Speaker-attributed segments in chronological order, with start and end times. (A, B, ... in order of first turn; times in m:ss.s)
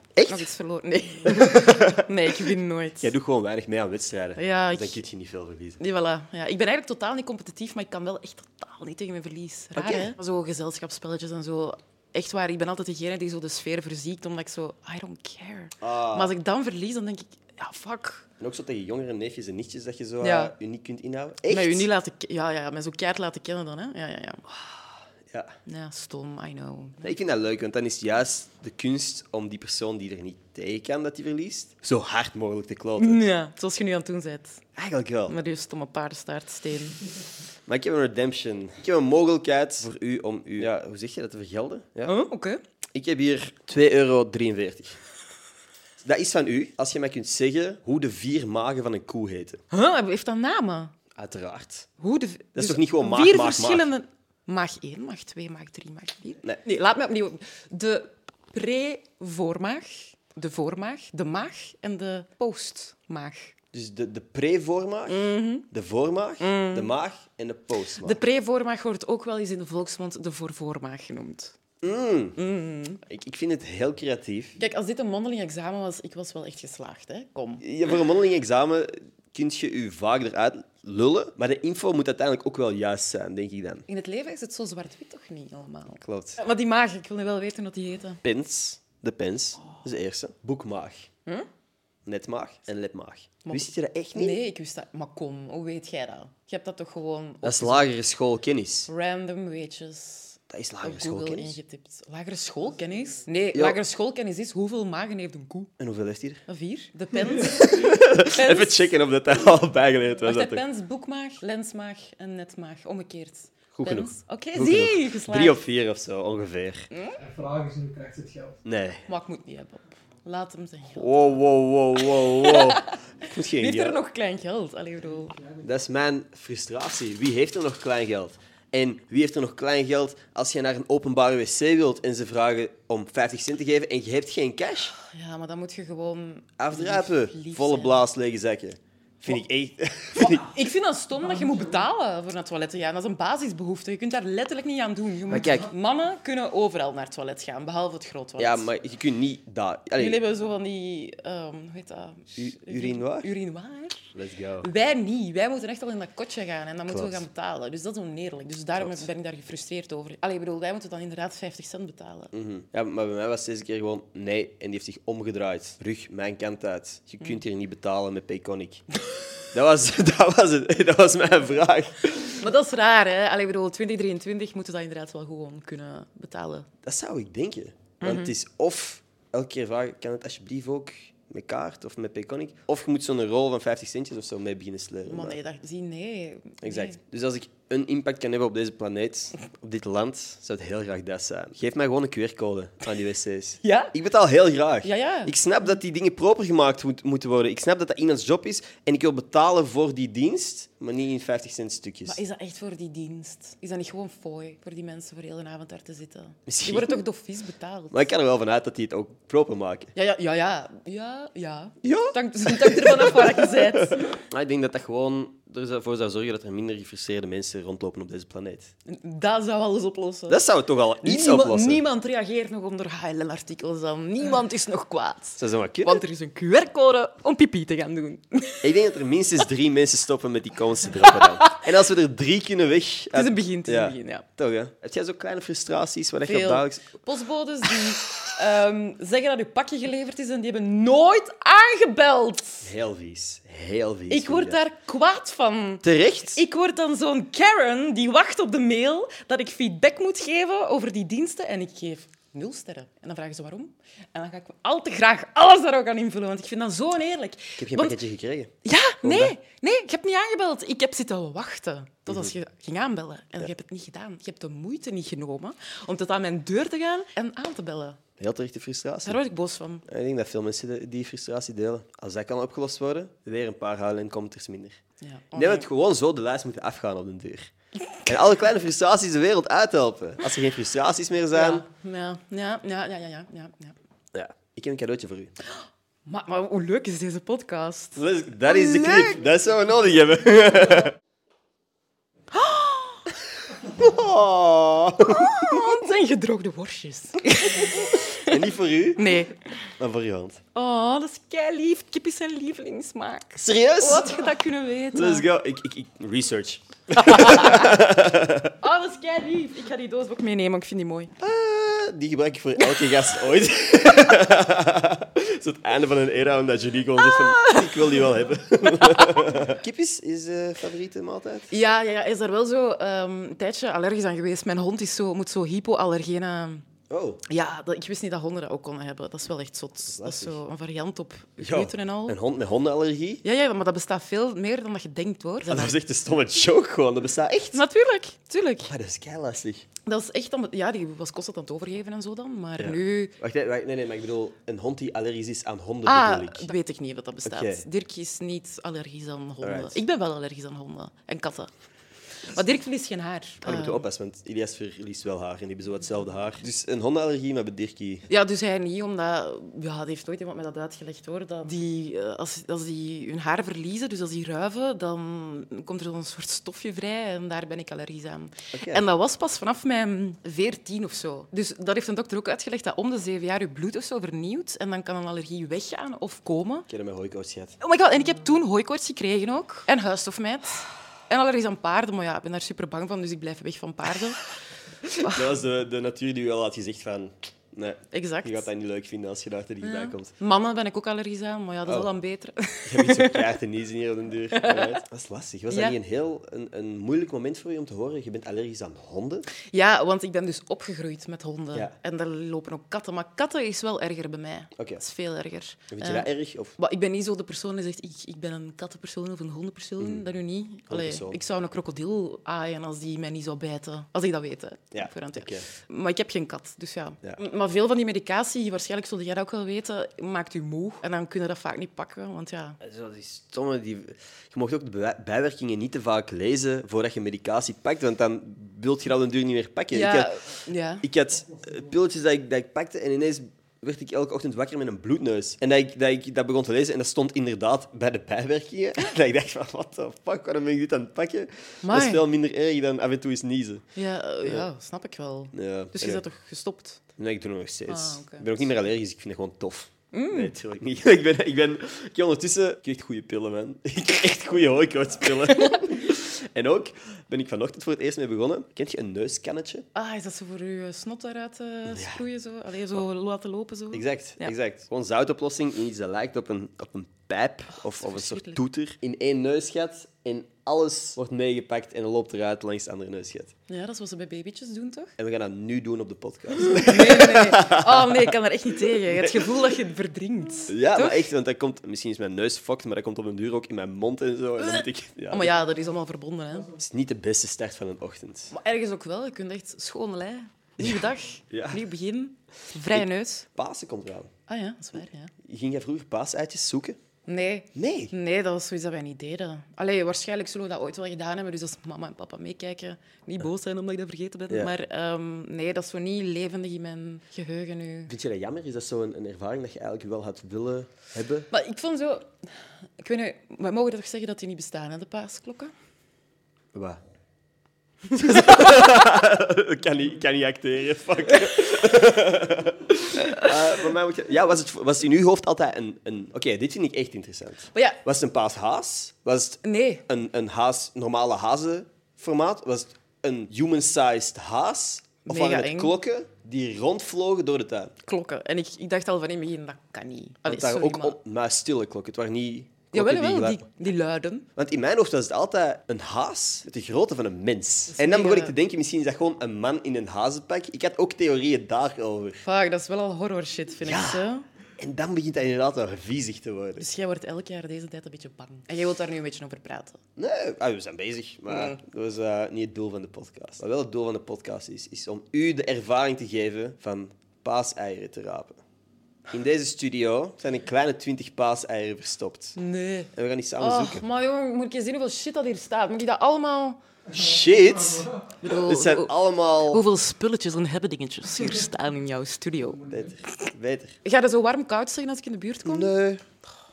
0:00.2-0:00.5 A
0:00.3-0:03.1 B
0:01.2-0:02.1 A
0:03.0-0:05.8 A
0:04.4-0:05.0 B
0:05.8-0:18.3 B
0:09.7-0:10.1 A
0:15.8-0:16.3 A
0:18.4-0:21.9 A
0:20.2-0:20.5 B
0:21.5-0:24.4 B
0:25.6-0:27.0 B
0:27.0-0:33.2 A
0:33.0-0:34.6 B
0:34.8-0:35.3 A
0:35.3-0:37.0 B
0:37.7-0:42.1 A
0:42.0-0:42.6 B
0:42.9-0:45.0 A
0:46.0-0:49.6 A
0:49.7-0:50.9 B
0:51.2-0:51.9 A
0:52.0-1:03.5 B
0:52.5-0:53.9 A
1:03.7-1:08.2 A
1:05.1-1:05.7 B
1:06.4-1:06.9 B
1:08.0-1:11.5 B
1:11.8-1:12.4 A
1:12.4-1:13.0 B
1:13.0-1:14.6 A
1:14.6-1:17.6 B
1:17.6-1:23.8 A
1:23.9-1:28.2 B
1:26.0-1:26.4 A
1:28.2-1:31.1 A
1:32.0-1:34.4 A
1:33.4-1:37.9 B
1:37.4-1:38.9 A
1:38.9-1:45.7 B
1:40.5-1:41.6 A
1:45.8-1:46.4 A
1:46.5-1:48.9 B
1:47.4-1:50.6 A
1:50.2-1:55.6 B
1:53.7-1:56.9 A
1:56.9-1:57.2 B
1:57.2-1:58.6 C
1:58.6-1:59.0 A
1:59.1-2:01.4 B
2:01.0-2:04.0 A
2:02.0-2:05.4 B
2:05.6-2:14.9 A
2:15.0-2:18.0 B
2:16.6-2:20.5 A
2:20.2-2:28.7 B
2:25.3-2:25.7 A
2:28.4-2:30.2 A
2:30.0-2:42.3 B
2:32.4-2:33.3 A
2:34.1-2:34.7 A
2:36.9-2:37.2 A
2:38.8-2:39.0 A
2:42.3-2:48.8 A
2:49.5-2:52.4 A
2:52.4-2:56.7 B
2:56.8-3:05.4 A
2:58.0-2:58.3 B
3:05.1-3:07.0 B
3:06.6-3:22.2 A
3:13.6-3:13.9 B
3:14.8-3:15.3 B
3:22.1-3:28.1 B
3:26.5-3:27.0 A
3:27.9-3:29.9 A
3:29.9-3:34.2 B
3:31.8-3:38.7 A
3:38.9-3:40.4 B
3:40.3-3:41.8 A
3:41.0-3:48.9 B
3:45.4-3:46.0 A
3:48.6-3:56.9 A
3:51.0-3:51.6 B
3:53.1-3:54.2 B
3:56.3-4:02.7 B
4:02.6-4:04.6 A
4:04.1-4:18.0 B
4:05.8-4:06.4 A
4:17.6-4:18.5 A
4:18.6-4:28.0 B
4:19.0-4:19.3 A
4:28.2-4:29.2 A
4:29.0-4:29.8 B
4:29.8-4:34.8 A
4:35.0-4:35.7 B
4:35.3-4:37.5 A
4:38.0-4:41.6 A
4:41.3-4:43.7 B
4:44.1-4:45.3 A
4:46.0-4:49.2 B
4:48.0-4:51.0 A
4:52.3-4:53.1 B
4:53.6-4:55.7 A
4:55.1-4:59.4 B
4:57.6-4:59.1 A
4:59.8-5:00.4 A
5:00.5-5:05.2 B
5:03.4-5:04.2 A
5:04.9-5:08.5 A
5:07.0-5:07.8 B
5:08.6-5:11.1 B
5:11.2-5:21.5 A
5:12.6-5:13.1 B
5:17.0-5:18.1 B
5:18.7-5:19.4 B
5:21.5-5:26.6 B
5:26.9-5:27.2 A
5:27.3-5:32.2 B
5:29.8-5:30.4 A
5:31.4-5:33.2 A
5:33.2-5:35.8 B
5:35.4-5:37.6 A
5:37.5-5:38.7 B
5:38.6-5:39.7 A
5:39.8-5:43.1 B
5:42.6-5:46.5 A
5:45.8-5:51.5 B
5:47.2-5:47.6 A
5:49.4-5:49.8 A
5:52.2-5:53.8 B
5:53.4-5:58.1 A
5:58.1-6:16.7 B
6:08.5-6:08.8 A
6:16.7-6:17.6 A
6:17.6-6:24.2 B
6:24.9-6:25.2 B
6:25.0-6:30.1 A
6:27.9-6:28.5 B
6:29.6-6:33.3 B
6:31.6-6:31.9 A
6:32.6-6:39.3 A
6:34.3-6:34.8 B
6:35.5-6:35.8 B
6:39.5-7:02.6 B
6:44.6-6:44.8 A
6:45.7-6:46.5 A
6:49.8-6:50.0 A
6:50.7-6:51.2 A
6:54.7-6:55.5 A
7:02.6-7:10.1 A
7:09.7-7:10.8 B
7:10.8-7:23.6 A
7:21.6-7:22.0 B
7:23.8-7:26.8 B
7:25.3-7:26.0 A
7:27.0-7:39.6 A
7:27.7-7:28.5 B
7:29.9-7:30.3 B
7:35.3-7:35.7 B
7:39.7-7:44.3 B
7:41.7-7:42.0 A
7:43.7-7:53.3 A
7:47.6-7:48.4 B
7:53.5-7:54.9 B
7:55.0-7:58.1 A
7:56.4-8:01.1 B
7:58.7-7:59.3 A
8:00.5-8:05.3 A
8:04.4-8:06.5 B
8:06.6-8:08.3 A
8:08.3-8:13.3 B
8:10.6-8:11.6 A
8:12.7-8:14.1 A
8:14.3-8:15.1 B
8:15.2-8:16.8 A
8:17.1-8:27.9 B
8:17.5-8:17.9 A
8:27.9-8:31.3 A
8:31.3-8:32.1 B
8:32.8-8:35.5 B
8:36.5-8:36.8 A
8:37.9-8:57.7 A
8:38.0-8:38.8 B
8:49.4-8:49.8 B
8:55.0-8:55.8 B
8:57.8-9:01.0 B
9:00.2-9:03.4 A
9:02.7-9:04.3 B
9:04.4-9:12.2 A
9:07.7-9:08.3 B
9:12.2-9:14.2 B
9:13.6-9:14.0 A
9:14.6-9:16.7 A
9:16.6-9:19.8 B
9:20.0-9:28.4 A
9:21.3-9:21.6 B
9:29.1-9:32.4 A
9:32.4-9:36.6 B
9:32.9-9:33.8 A
9:36.9-9:38.1 C
9:36.9-9:39.6 A
9:38.2-9:42.6 B
9:42.6-9:42.9 C
9:42.7-9:43.8 A
9:43.8-9:45.7 B
9:45.4-9:46.0 A